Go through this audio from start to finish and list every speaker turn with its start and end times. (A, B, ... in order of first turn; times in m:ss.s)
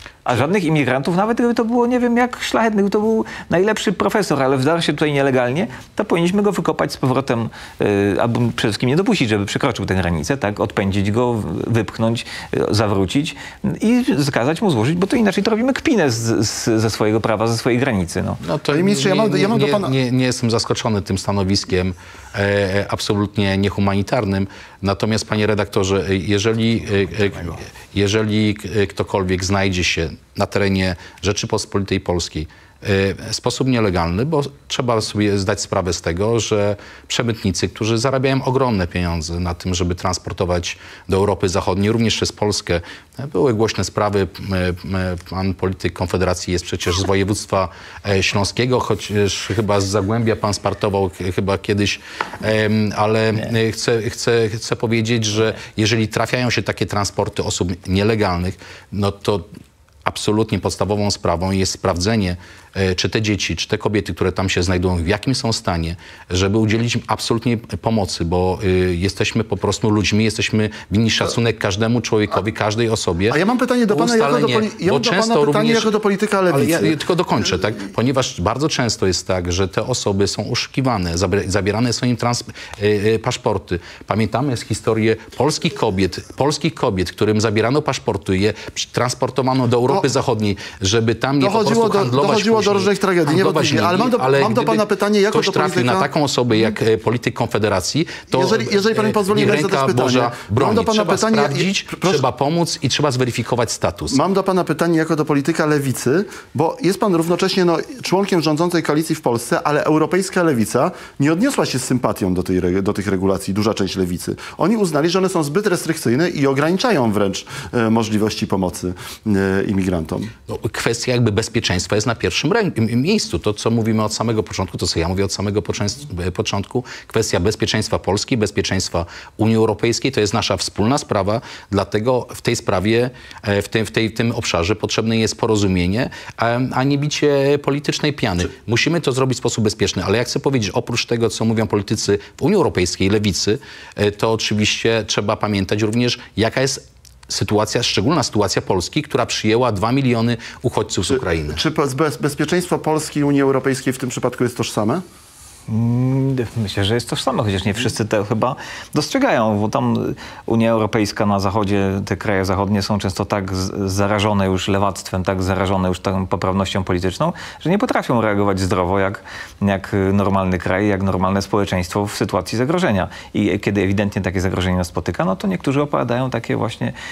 0:00.2-0:18.4 A
0:18.4-0:59.5 B
0:18.7-0:19.9 C
1:00.0-1:15.9 B
1:13.3-1:17.0 C
1:16.5-1:44.2 B
1:31.4-1:36.1 C
1:38.3-1:42.2 C
1:44.1-2:00.3 C
2:00.5-2:31.6 B
2:31.1-2:35.0 C
2:35.7-2:57.0 A